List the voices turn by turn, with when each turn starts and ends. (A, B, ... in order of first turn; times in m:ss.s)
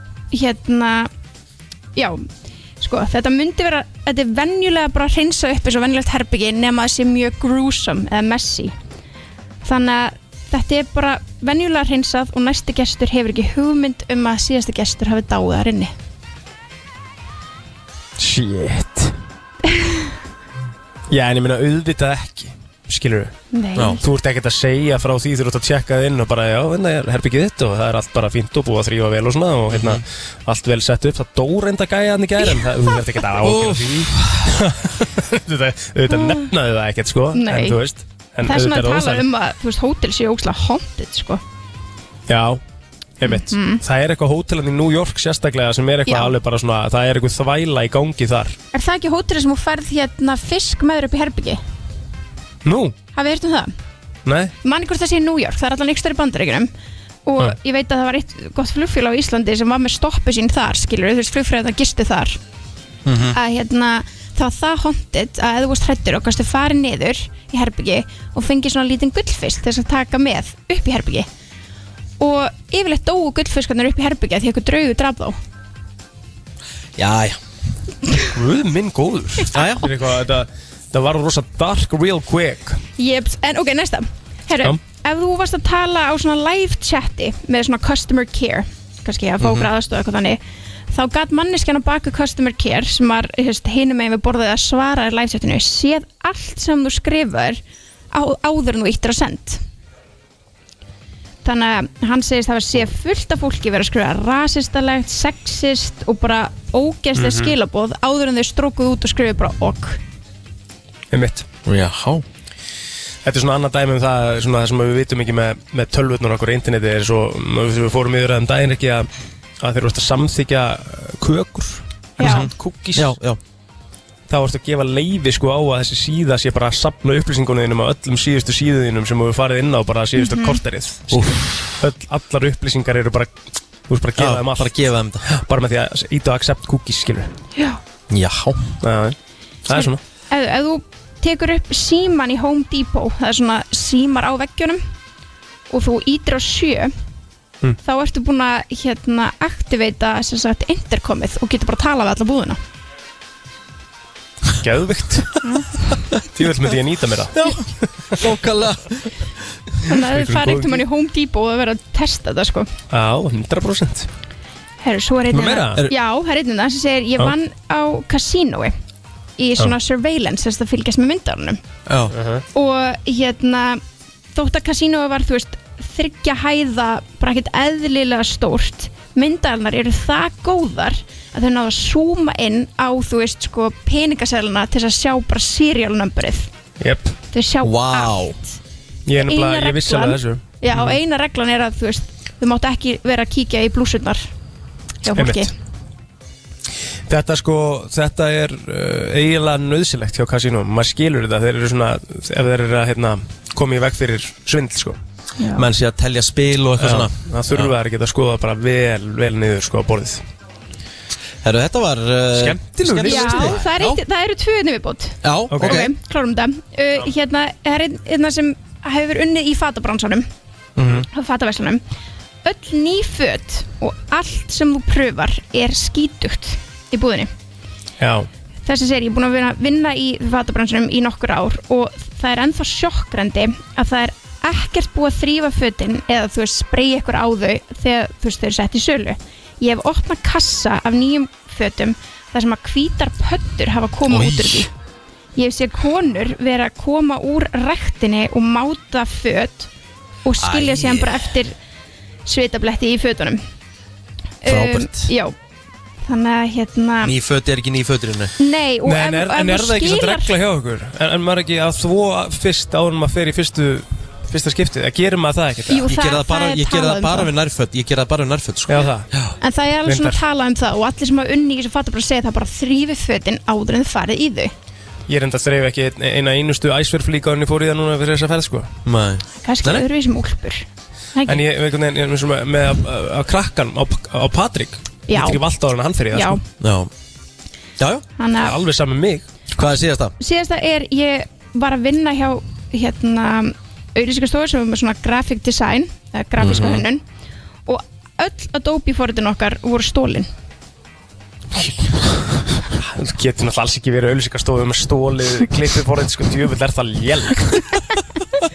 0:00.3-0:01.1 A
0:02.0-0:02.3 A
0:02.8-0:08.7 A
0:09.6-0:15.9 A
0:18.2-0:19.2 B
0:21.1-0:23.4 B
0:23.5-0:24.0 A
0:24.0-0:39.2 B
0:29.7-0:30.0 C
0:32.4-0:33.0 A
0:33.4-0:34.5 C
0:36.1-0:36.5 A
0:37.3-0:37.8 A
0:38.4-0:41.4 A
0:42.3-0:42.6 B
0:43.2-0:48.6 B
0:43.2-0:43.8 A
0:46.1-0:46.3 A
0:48.7-0:51.6 A
0:52.6-0:53.0 B
0:53.1-0:53.7 A
0:54.2-0:54.5 B
0:54.6-0:56.7 A
0:57.2-1:02.4 A
1:03.0-1:03.4 C
1:03.3-1:11.3 A
1:12.2-1:15.4 A
1:17.0-1:17.4 C
1:18.3-1:22.8 B
1:19.5-1:19.9 C
1:23.0-1:39.6 A
1:29.4-1:29.7 C
1:41.4-1:50.0 A
1:47.1-1:47.5 B
1:51.1-1:51.4 B
1:51.6-1:52.2 C
1:53.2-1:59.1 B
1:59.6-2:03.2 B
2:02.2-2:02.5 A
2:02.2-2:03.4 C
2:04.3-2:13.3 B
2:10.1-2:10.6 A
2:11.1-2:11.4 C
2:13.9-2:17.3 B
2:14.2-2:15.2 C
2:17.5-2:17.8 A
2:18.1-2:18.6 C
2:18.8-2:19.2 B
2:19.7-2:20.0 B
2:19.7-2:24.8 A
2:25.7-2:26.9 A
2:27.8-2:32.6 A
2:34.6-2:35.4 B
2:36.2-2:38.2 B
2:37.3-2:39.1 C
2:39.8-2:42.7 A
2:40.0-2:40.8 B
2:42.9-2:44.1 B
2:44.8-2:48.7 A
2:45.3-2:45.8 B
2:49.4-2:51.6 A
2:51.9-2:52.1 C
2:52.1-2:52.4 B
2:52.5-2:53.8 A
2:54.3-3:06.5 A
3:06.8-3:07.1 B
3:07.3-3:08.5 A
3:07.6-3:08.4 C
3:09.0-3:11.0 B
3:09.1-3:14.3 A
3:15.0-3:15.5 A
3:15.2-3:15.5 B
3:17.1-3:25.0 B
3:25.4-3:25.7 A
3:25.5-3:27.7 C
3:26.8-3:30.2 B
3:31.4-3:34.0 C
3:32.3-3:33.6 B
3:33.0-3:40.3 A
3:35.2-3:35.9 C
3:35.5-3:35.8 B
3:40.8-3:41.0 C
3:41.0-3:41.8 A
3:42.4-3:47.3 A
3:48.0-3:48.3 B
3:48.6-4:04.7 A
4:04.1-4:04.7 C
4:05.4-4:09.7 A
4:10.2-4:11.5 A
4:10.4-4:11.3 C
4:12.2-4:13.4 A
4:14.4-4:15.4 A
4:14.4-4:15.1 C
4:16.0-4:17.2 A
4:17.0-4:18.3 C
4:18.4-4:20.4 A
4:18.8-4:25.9 B
4:25.7-4:27.3 A
4:25.8-4:29.3 C
4:28.7-4:29.1 B
4:29.4-4:34.5 A
4:29.8-4:30.2 B
4:35.1-4:38.7 B
4:38.8-4:39.8 C
4:39.4-4:41.4 A
4:41.2-4:46.4 B
4:45.1-4:45.4 A
4:46.1-4:46.4 A
4:46.6-4:46.9 C
4:47.8-4:48.0 C
4:48.2-4:48.6 A
4:48.4-4:49.2 B
4:49.5-4:50.1 C
4:50.2-4:57.0 A
4:56.4-4:56.8 C
4:57.6-5:00.3 A
5:01.5-5:07.7 B